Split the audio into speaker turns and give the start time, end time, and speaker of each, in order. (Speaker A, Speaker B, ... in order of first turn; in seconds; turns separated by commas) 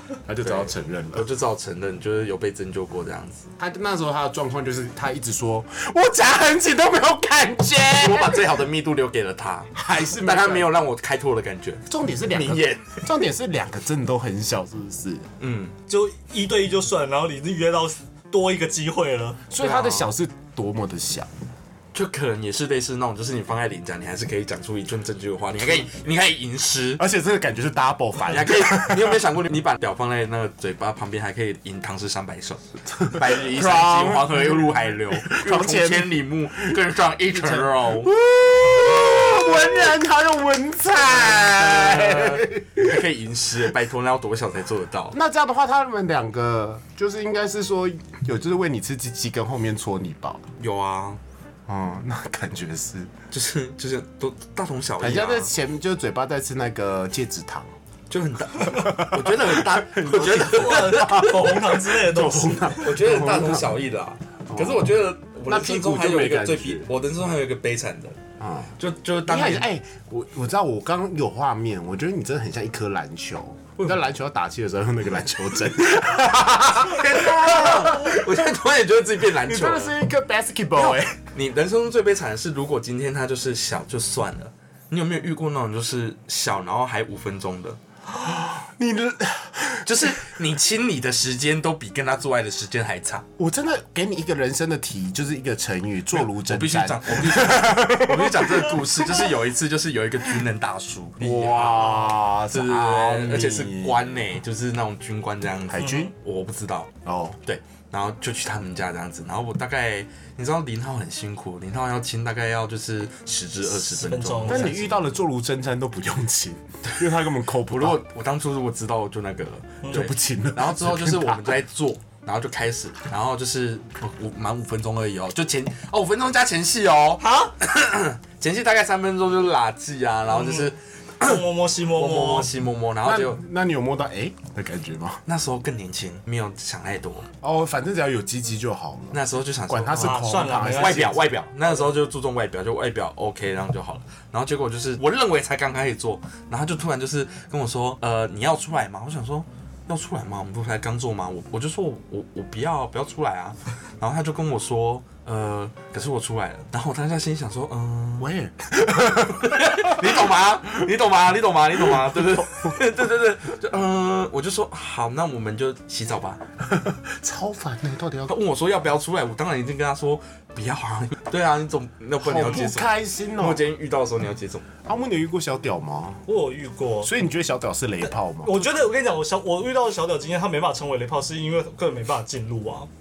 Speaker A: 0.3-1.3, Speaker B: 0.4-3.5, Speaker A: 3.6-8.5, Speaker B: 8.0-13.1, Speaker A: 9.7-10.8, Speaker A: 11.9-15.3, Speaker B: 15.4-15.8, Speaker C: 15.9-19.4, Speaker A: 19.5-21.3, Speaker B: 19.6-20.1, Speaker B: 21.9-27.0, Speaker A: 27.0-29.2, Speaker B: 28.3-38.1, Speaker A: 32.9-36.8, Speaker A: 37.3-43.0, Speaker B: 41.0-45.2, Speaker A: 45.1-50.4, Speaker B: 50.6-51.2, Speaker A: 51.7-53.1, Speaker B: 53.3-55.5, Speaker A: 55.0-57.7, Speaker B: 58.1-61.3, Speaker A: 58.7-63.7, Speaker C: 60.2-62.9, Speaker B: 62.8-68.2, Speaker A: 64.5-64.9, Speaker A: 65.5-66.9, Speaker A: 68.4-68.7, Speaker B: 68.8-69.7, Speaker A: 69.3-78.3, Speaker B: 76.8-80.0, Speaker A: 79.4-81.2, Speaker B: 80.8-87.8, Speaker A: 88.1-90.3, Speaker B: 89.9-93.3, Speaker A: 93.4-99.3, Speaker B: 96.2-106.9, Speaker A: 101.2-104.2, Speaker A: 105.7-106.1, Speaker C: 105.8-106.1, Speaker A: 107.0-107.4, Speaker B: 107.5-115.0, Speaker C: 114.0-114.8, Speaker A: 114.5-118.0, Speaker B: 117.7-133.4, Speaker A: 119.9-121.5, Speaker C: 127.2-127.5, Speaker C: 130.4-130.7, Speaker C: 131.2-132.5, Speaker A: 133.0-135.2, Speaker B: 135.3-137.3, Speaker A: 137.4-141.4, Speaker B: 139.1-158.3, Speaker C: 139.9-141.2, Speaker A: 158.2-160.1, Speaker B: 159.3-166.4, Speaker A: 162.0-162.7, Speaker A: 166.7-168.4, Speaker B: 168.3-174.7, Speaker A: 172.2-173.7, Speaker A: 174.8-176.2, Speaker C: 176.3-177.1, Speaker A: 177.0-178.6, Speaker C: 178.4-182.9